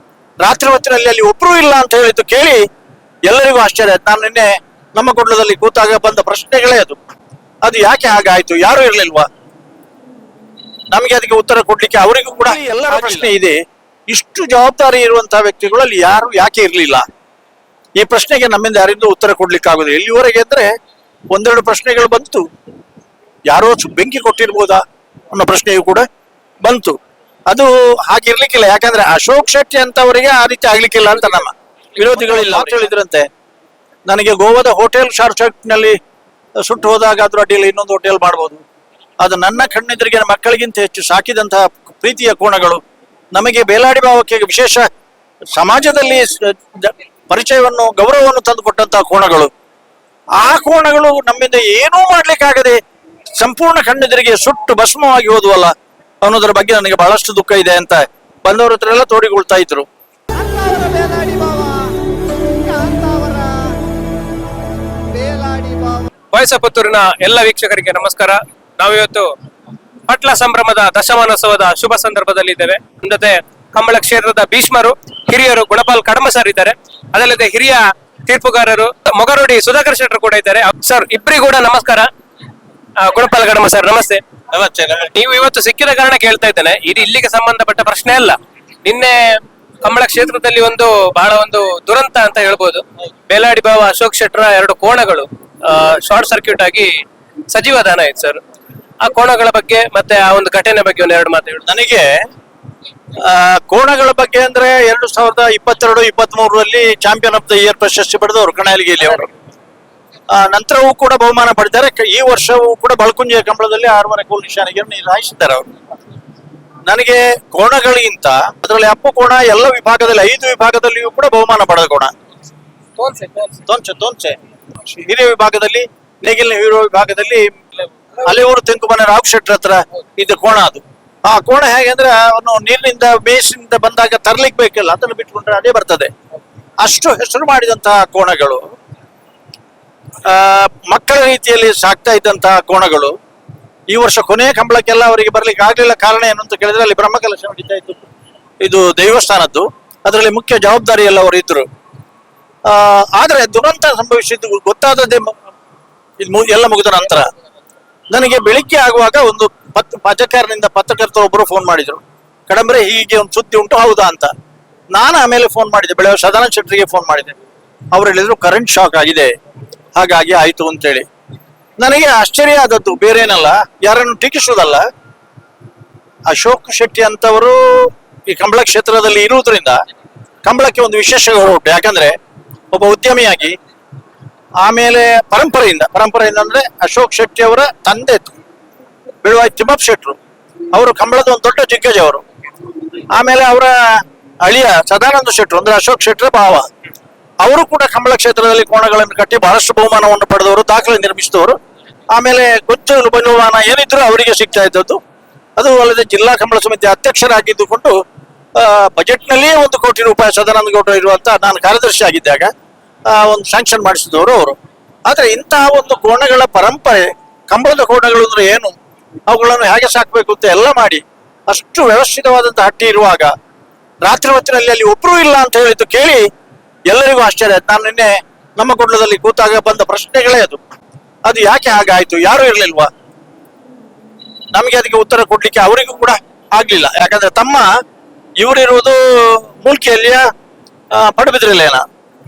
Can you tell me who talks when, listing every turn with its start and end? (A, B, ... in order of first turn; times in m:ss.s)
0:00.4-0:02.6 A
0:03.3-0:07.0 A
0:07.6-0:09.3 A
0:10.9-0:13.6 A
0:14.1-0:17.0 A
0:18.0-0:20.7 A
0:21.3-0:22.4 A
0:23.5-0:24.8 A
0:25.3-0:26.0 A
0:26.6-0:27.0 A
0:27.5-0:33.2 A
0:34.1-0:36.0 A
0:36.6-0:38.6 A
0:39.2-0:42.8 A
0:43.3-0:44.8 A
0:45.6-0:49.5 A
0:50.4-0:52.8 A
0:53.4-0:55.7 A
0:56.2-0:59.9 A
1:00.4-1:01.8 A
1:01.5-1:01.8 B
1:02.6-1:03.7 B
1:02.8-1:03.5 A
1:05.1-1:06.1 B
1:05.3-1:05.7 A
1:06.3-1:09.3 C
1:10.1-1:22.1 C
1:23.0-1:24.2 C
1:24.5-1:25.1 A
1:25.0-1:38.4 C
1:39.0-1:41.6 C
1:41.6-1:42.2 A
1:43.2-1:49.3 A
1:50.3-1:55.7 A
1:56.9-2:02.1 A
2:03.0-2:03.6 C
2:03.7-2:07.6 A
2:08.2-2:16.1 A
2:16.8-2:18.6 A
2:20.2-2:23.1 A
2:23.9-2:28.1 A
2:28.6-2:31.7 A
2:32.6-2:35.4 A
2:36.2-2:37.3 A
2:38.1-2:44.3 A
2:44.9-2:47.4 A
2:47.9-2:49.3 A
2:50.0-2:51.0 A
2:51.8-2:54.8 A
2:56.3-2:59.8 A
3:00.4-3:02.1 A
3:02.7-3:03.6 A
3:04.6-3:08.3 A
3:09.2-3:10.2 A
3:10.7-3:12.2 A
3:13.1-3:16.6 A
3:17.4-3:21.6 A
3:22.1-3:25.0 A
3:25.6-3:28.0 A
3:28.6-3:32.5 A
3:33.1-3:34.6 A
3:35.1-3:38.7 A
3:39.3-3:43.3 A
3:44.0-3:46.2 A
3:46.9-3:50.6 A
3:51.2-3:52.9 A
3:54.5-3:57.7 A
3:58.4-4:00.3 A
4:00.9-4:01.8 A